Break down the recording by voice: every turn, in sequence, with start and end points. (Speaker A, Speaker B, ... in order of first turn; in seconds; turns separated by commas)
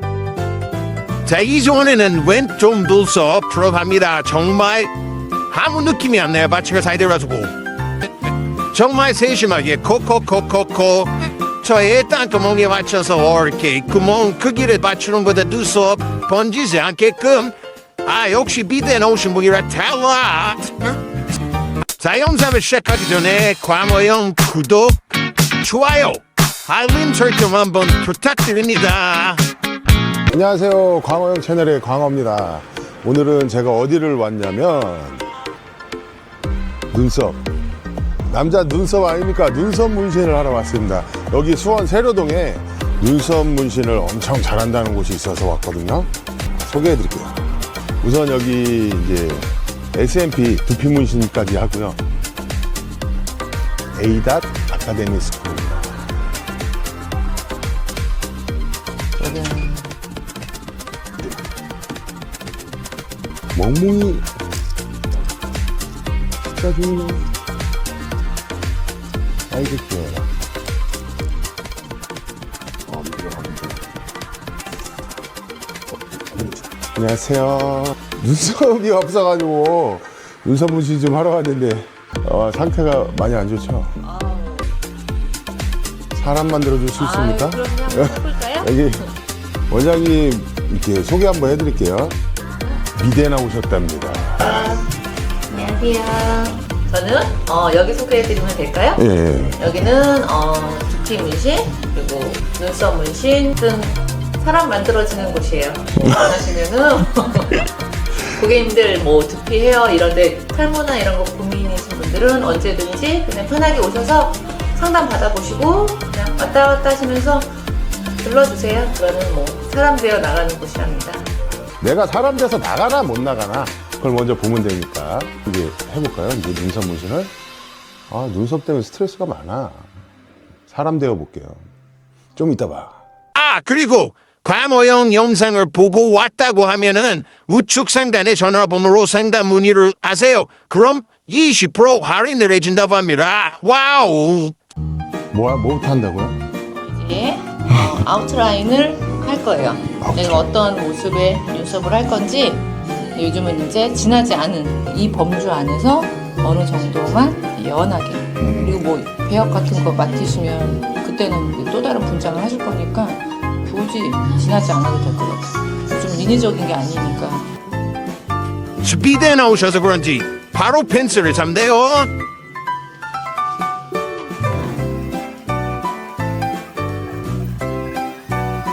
Speaker A: 1.2-4.9, Speaker A: 5.5-7.5, Speaker A: 8.7-17.5, Speaker A: 18.1-21.0, Speaker A: 22.0-25.0, Speaker A: 25.6-29.4, Speaker B: 30.3-35.3, Speaker B: 36.9-37.4, Speaker B: 38.3-46.1, Speaker B: 46.6-47.5, Speaker B: 48.0-52.0, Speaker B: 54.0-55.9, Speaker C: 59.2-59.9, Speaker B: 63.5-64.3, Speaker B: 66.5-67.3, Speaker B: 69.5-70.3, Speaker B: 72.9-73.8, Speaker B: 76.2-84.0, Speaker C: 84.0-84.7, Speaker B: 86.1-89.1, Speaker C: 87.0-88.7, Speaker B: 89.7-92.2, Speaker B: 93.0-94.6, Speaker C: 95.5-99.0, Speaker B: 99.0-99.7, Speaker C: 99.6-117.5, Speaker C: 118.2-121.3, Speaker B: 121.8-127.3, Speaker B: 128.1-129.9, Speaker B: 130.7-131.7, Speaker B: 132.4-133.0, Speaker A: 133.3-144.6, Speaker B: 145.3-146.4, Speaker C: 146.7-167.5, Speaker B: 150.0-150.5, Speaker B: 158.4-158.8, Speaker A: 168.8-172.1